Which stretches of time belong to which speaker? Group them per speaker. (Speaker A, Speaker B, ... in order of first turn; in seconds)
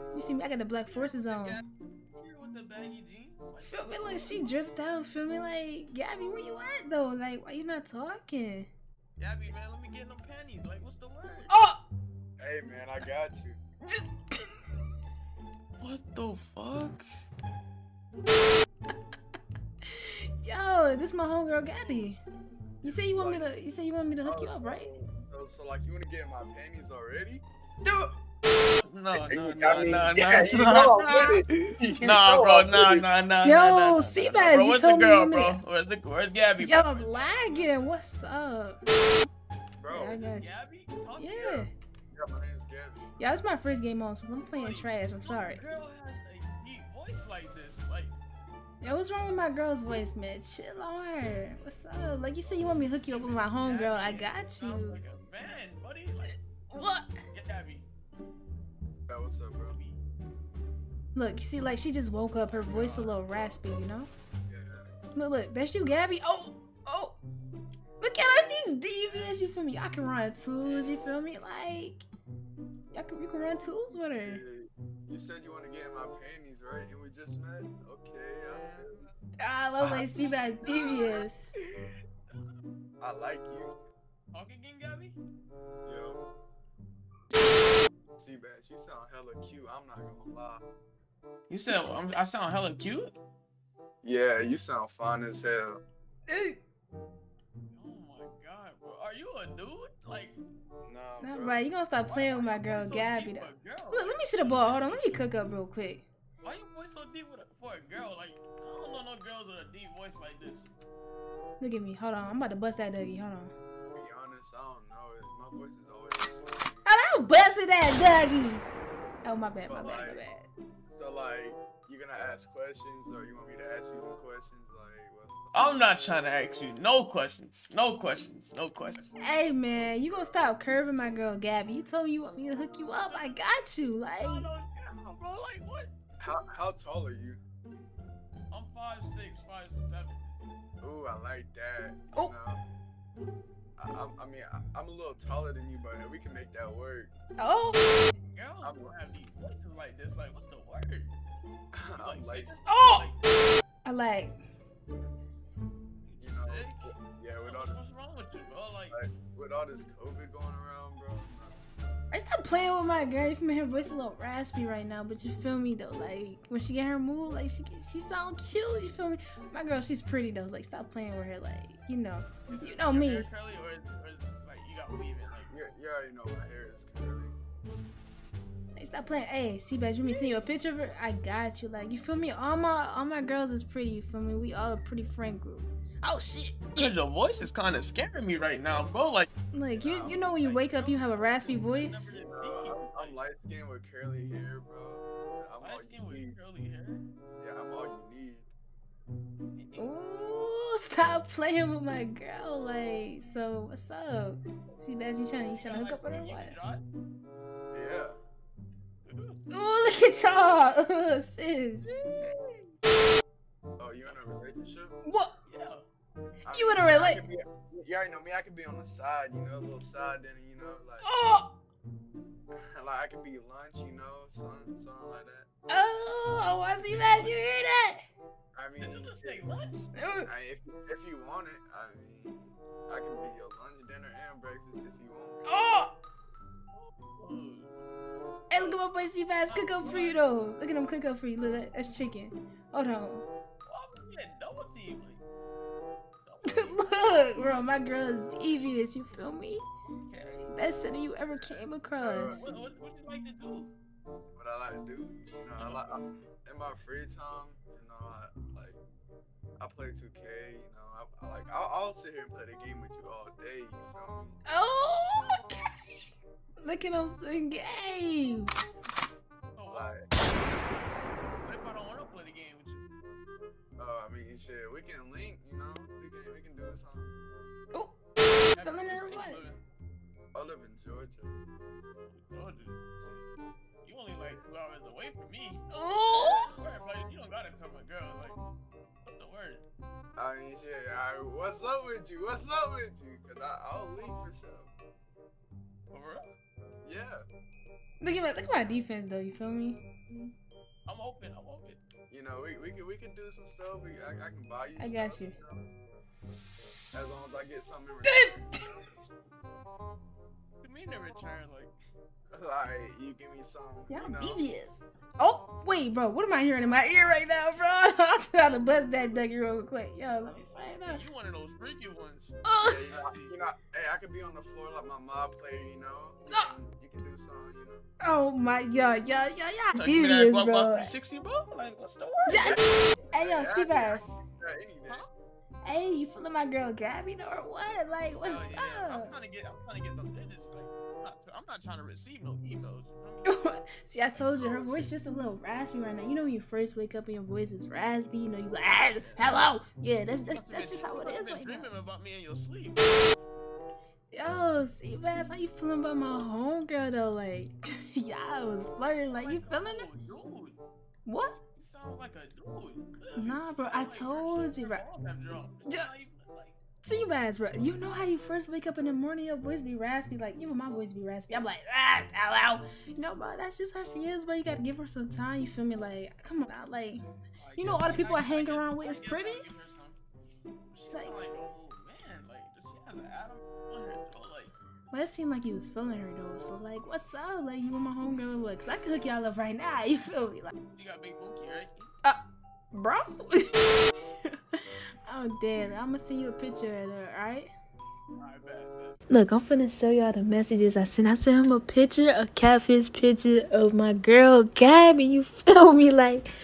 Speaker A: 0.1-1.6, 3.6-8.7, 11.5-11.8, 14.0-14.4, 19.9-22.2, 22.8-24.9, 27.9-28.1, 33.4-35.6, 36.6-38.8, 39.9-40.5, 41.2-41.7, 43.2-45.6, 48.8-55.0, 56.7-57.1, 61.1-64.1, 65.2-67.2, 68.0-72.0, 72.9-74.4, 79.4-81.5, 96.3-96.6, 101.2-106.0, 111.6-113.5, 116.8-118.6, 119.2-120.5, 129.2-134.5, 147.4-148.1, 152.7-153.1, 153.8-154.4, 162.1-173.3, 178.8-186.8, 189.5-192.2, 199.8-206.6, 209.5-211.9, 215.1-215.3, 216.5-217.2, 221.0-221.5, 225.7-228.0, 230.0-230.3, 235.5-235.9, 238.5-243.2, 246.5-249.6, 250.5-252.4, 264.5-265.5, 266.6-268.5, 277.7-279.4, 285.7-286.5, 298.0-300.3, 304.8-305.4, 308.1-308.8, 313.9-321.0, 322.5-322.8, 326.3-326.6, 328.0-330.9, 332.3-334.2, 335.6-339.1, 343.2-351.7, 354.1-359.9, 361.1-361.4, 363.2-364.8, 366.8-377.0, 377.6-379.5, 384.9-390.5, 392.7-394.4, 395.1-397.5, 399.1-406.2
Speaker B: 0.8-1.7, 2.2-4.6, 9.2-11.5, 15.8-17.1, 28.8-37.7, 40.2-41.7, 44.6-48.1, 53.0-56.4, 57.3-57.9, 59.7-60.0, 62.4-63.5, 69.1-69.4, 70.6-71.0, 78.5-79.1, 80.6-82.5, 84.3-85.2, 91.5-93.2, 97.7-100.4, 102.1-105.2, 106.4-110.7, 125.5-129.2, 133.1-133.6, 134.2-135.9, 138.5-140.3, 148.3-151.1, 152.0-153.2, 156.1-156.9, 157.4-159.0, 172.5-175.5, 186.8-189.3, 190.1-193.2, 195.6-197.1, 199.5-200.0, 205.6-206.8, 209.1-209.4, 211.9-212.7, 215.5-215.8, 228.8-229.9, 236.7-237.8, 239.5-240.2, 243.7-245.2, 246.2-247.7, 250.1-250.5, 252.3-253.7, 255.6-255.8, 269.6-272.9, 278.5-279.6, 282.1-283.3, 283.8-288.4, 289.1-289.6, 295.9-296.3, 300.9-301.8, 310.6-311.8, 320.9-323.3, 329.7-332.8, 334.9-335.1, 338.2-343.3, 348.9-349.4, 350.3-353.0, 359.2-360.6, 361.6-366.6, 377.4-380.0, 380.7-384.5, 390.7-391.9, 398.2-399.0
Speaker C: 12.4-13.6, 22.8-23.6, 24.2-27.4, 29.2-33.0, 39.8-40.2, 42.1-43.0, 59.1-59.8, 64.5-64.9, 74.2-79.0, 79.8-80.1, 83.0-83.8, 85.8-86.2, 88.2-90.6, 94.0-95.8, 100.8-101.6, 113.9-116.9, 119.7-120.2, 120.9-125.9, 136.2-137.4, 140.8-142.6, 143.8-147.1, 148.6-148.9, 151.7-152.5, 156.2-157.8, 158.9-161.6, 175.5-177.3, 189.8-190.2, 192.2-196.3, 197.4-198.5, 207.7-208.2, 213.8-215.0, 216.5-221.1, 222.5-225.5, 228.6-229.4, 230.3-235.4, 251.3-252.5, 254.3-258.8, 259.6-264.4, 269.7-270.1, 273.8-277.1, 280.3-281.4, 290.2-294.7, 296.8-297.3, 302.1-305.7, 306.9-308.5, 312.3-314.4, 322.6-327.9, 332.4-332.6, 333.1-335.1